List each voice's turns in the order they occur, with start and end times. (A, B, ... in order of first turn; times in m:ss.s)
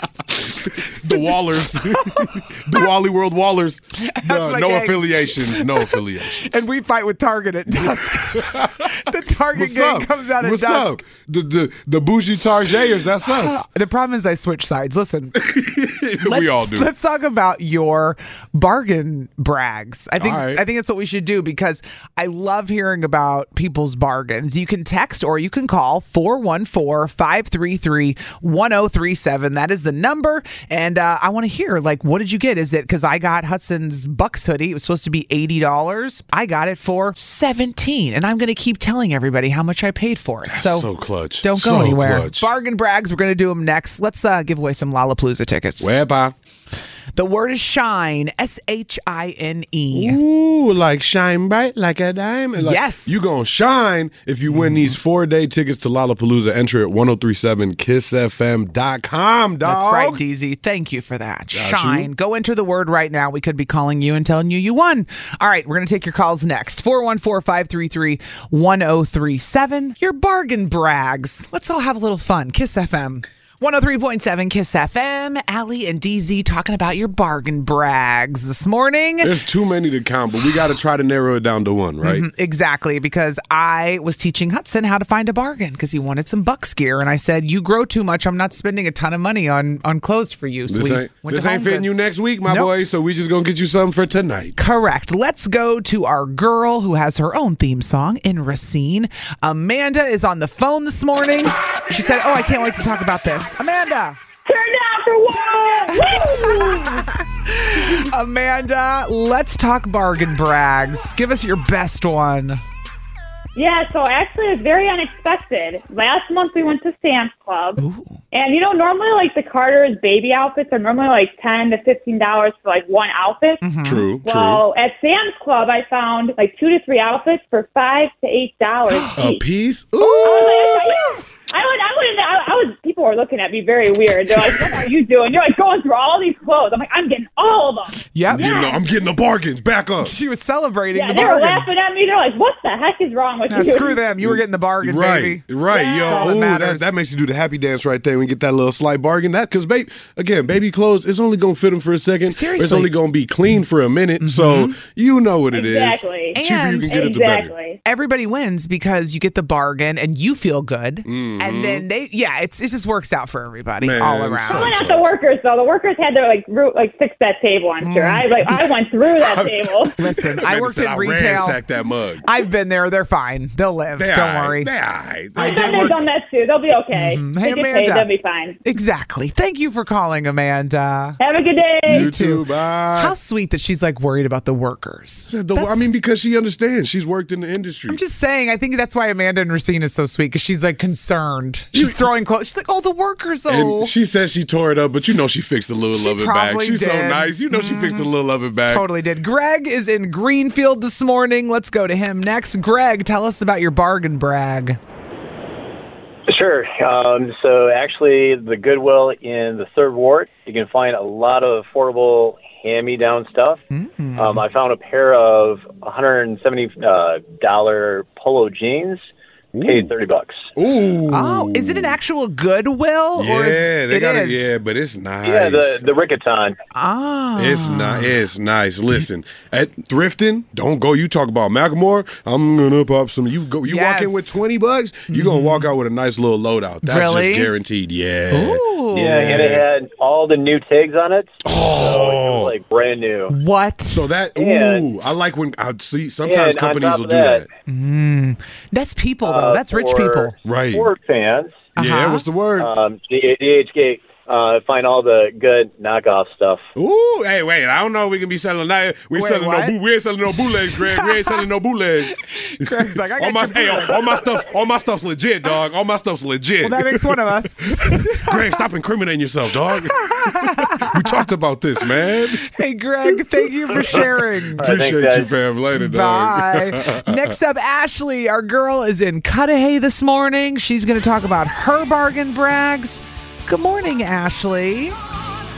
0:00.6-0:06.6 A
0:01.1-0:02.8 B
0:04.0-0:11.0 B
0:07.8-0:08.9 A
0:09.5-0:13.6 A
0:13.2-0:15.4 B
0:15.4-0:16.9 A
0:16.2-0:40.9 B
0:20.2-0:20.6 A
0:40.5-0:42.5 A
0:41.4-0:45.9 B
0:45.8-0:46.3 A
0:47.2-0:50.2 B
0:49.9-1:00.2 A
0:52.6-0:53.2 B
0:54.5-0:55.0 B
0:59.6-1:19.3 B
1:01.5-1:02.1 A
1:19.2-1:22.3 A
1:22.0-1:32.7 B
1:30.7-1:34.6 A
1:34.6-1:44.2 B
1:44.5-1:47.1 C
1:45.9-1:52.6 B
1:53.6-1:57.8 C
1:57.8-1:58.2 B
1:58.3-2:03.6 C
2:03.6-2:04.1 B
2:03.8-2:04.6 A
2:04.2-2:09.4 C
2:08.9-2:09.2 B
2:09.2-2:11.0 A
2:10.0-2:10.9 B
2:10.2-2:18.8 C
2:18.1-2:18.7 B
2:18.3-2:20.1 A
2:20.0-2:21.7 B
2:20.9-2:24.0 C
2:23.5-2:26.9 B
2:24.2-2:37.5 A
2:25.7-2:26.4 C
2:32.3-2:32.9 B
2:34.2-2:34.8 B
2:35.5-2:36.4 C
2:36.4-2:37.0 B
2:36.9-2:37.8 C
2:37.8-2:44.8 B
2:41.0-2:41.8 A
2:43.8-2:45.1 A
2:44.5-2:50.0 C
2:47.8-2:48.6 B
2:49.1-2:52.3 A
2:50.0-2:51.6 B
2:52.2-2:54.7 B
2:54.0-2:56.1 A
2:55.4-2:56.0 B
2:55.4-2:58.6 C
2:56.9-2:58.1 B
2:58.6-3:01.2 B
3:01.2-3:02.1 C
3:01.9-3:02.4 B
3:01.9-3:03.1 A
3:02.9-3:05.9 B
3:05.3-3:08.0 A
3:07.9-3:13.9 B
3:11.7-3:12.0 A
3:13.5-3:18.9 A
3:15.9-3:18.1 B
3:18.7-3:24.8 B
3:26.3-3:33.6 D
3:33.7-3:34.4 B
3:34.2-3:39.1 D
3:39.5-3:39.9 A
3:39.6-3:40.5 D
3:40.6-3:42.0 A
3:41.1-3:44.5 B
3:43.2-3:45.8 A
3:45.2-3:46.6 D
3:46.7-3:48.1 B
3:47.4-3:59.6 A
3:53.7-3:54.4 B
3:55.1-3:55.7 B
3:56.8-3:57.5 B
3:58.3-3:59.4 B
3:59.0-4:03.3 D
4:01.4-4:02.5 A
4:03.3-4:04.0 B
4:03.9-4:07.5 A
4:04.4-4:04.8 D
4:06.2-4:07.5 D
4:07.7-4:10.4 B
4:09.2-4:11.7 D
4:10.4-4:10.9 A
4:11.8-4:12.2 B
4:11.8-4:12.7 A
4:12.6-4:16.6 D
4:16.8-4:32.4 A
4:19.1-4:19.8 B
4:20.3-4:21.4 B
4:22.2-4:24.3 B
4:26.6-4:28.4 B
4:29.9-4:31.3 B
4:32.4-4:34.6 B
4:33.7-4:37.3 A
4:34.6-4:35.3 D
4:35.8-4:45.0 B